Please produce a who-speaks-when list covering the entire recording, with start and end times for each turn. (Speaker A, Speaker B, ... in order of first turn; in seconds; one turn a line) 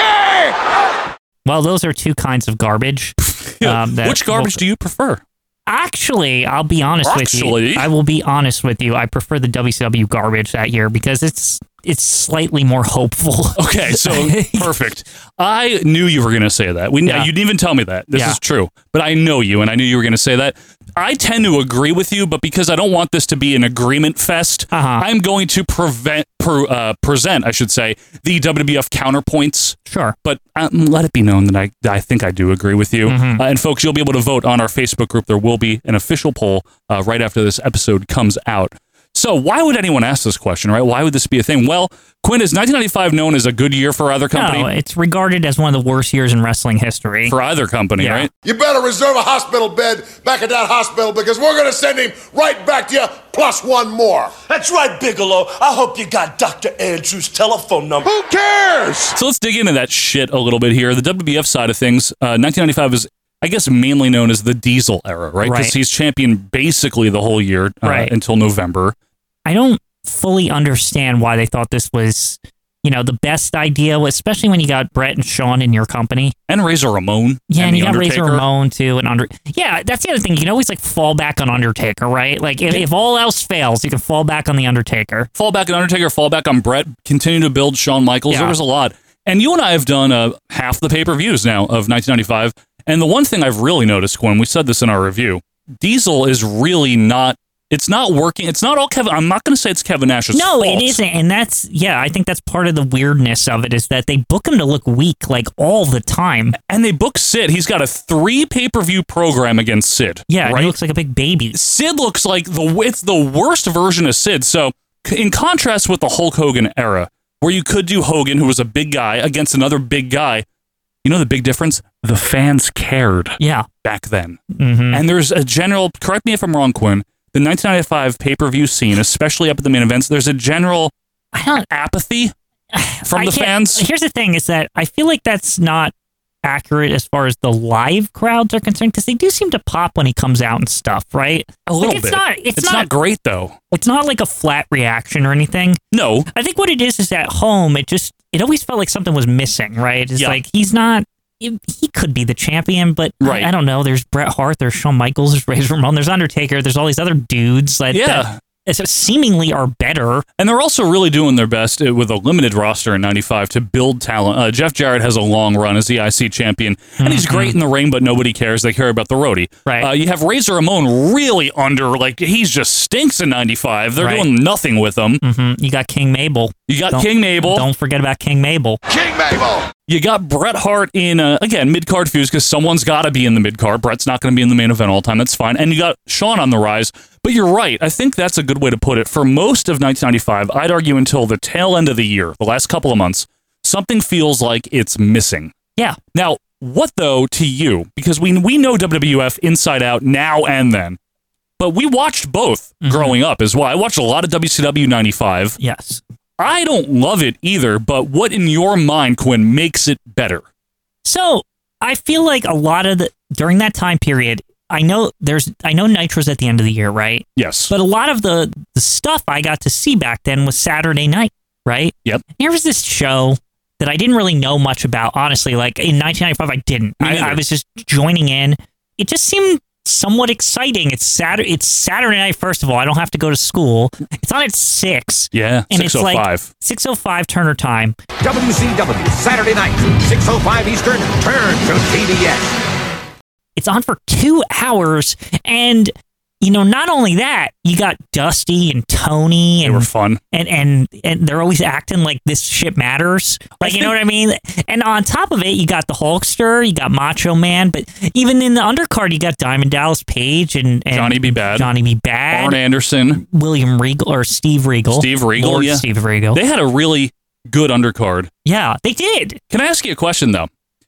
Speaker A: 1.4-4.6
Speaker B: 3.2-5.2
Speaker A: 5.7-14.7
Speaker B: 7.0-7.9
Speaker B: 13.6-44.7
Speaker A: 24.7-25.0
Speaker A: 29.9-30.1
Speaker A: 33.0-33.4
Speaker A: 44.3-47.3
Speaker B: 47.3-48.3
Speaker A: 48.0-48.3
Speaker C: 48.4-54.3
Speaker D: 54.4-58.1
Speaker C: 58.0-59.1
Speaker B: 59.1-68.9
Speaker A: 65.4-65.7
Speaker A: 67.8-68.1
Speaker A: 69.5-76.3
Speaker B: 76.5-78.4
Speaker A: 77.5-85.3
Speaker B: 85.3-101.0
Speaker A: 88.3-88.6
Speaker A: 100.3-106.5
Speaker B: 106.5-110.8
Speaker A: 110.3-111.6
Speaker B: 111.5-120.5
Speaker B: 121.0-124.4
Speaker A: 123.4-123.7
Speaker A: 124.5-125.0
Speaker B: 124.9-130.9
Speaker A: 131.3-131.7
Speaker B: 131.7-132.3
Speaker A: 132.7-135.9
Speaker B: 133.1-133.8
Speaker A: 136.4-142.9
Speaker B: 141.7-143.6
Speaker A: 143.7-145.8
Speaker B: 145.9-146.3
Speaker A: 146.3-160.2
Speaker B: 153.2-153.5
Speaker B: 157.9-158.4
Speaker B: 160.4-175.2
Speaker A: 167.0-167.6
Speaker A: 174.0-174.3
Speaker A: 175.2-178.8
Speaker B: 176.7-177.7
Speaker C: 178.9-179.6
Speaker B: 179.9-195.5
Speaker B: 196.1-201.0
Speaker B: 201.6-205.6
Speaker A: 202.8-203.2
Speaker A: 205.6-206.0
Speaker B: 206.4-210.4
Speaker A: 211.0-238.0
Speaker B: 217.3-217.7
Speaker B: 227.0-227.4
Speaker B: 235.3-236.5
Speaker E: 238.2-242.6
Speaker A: 243.6-262.6
Speaker B: 249.6-250.2
Speaker B: 253.6-254.0
Speaker B: 260.9-261.7
Speaker B: 262.3-263.2
Speaker A: 263.1-266.4
Speaker B: 264.9-268.3
Speaker A: 268.4-269.4
Speaker B: 269.5-270.5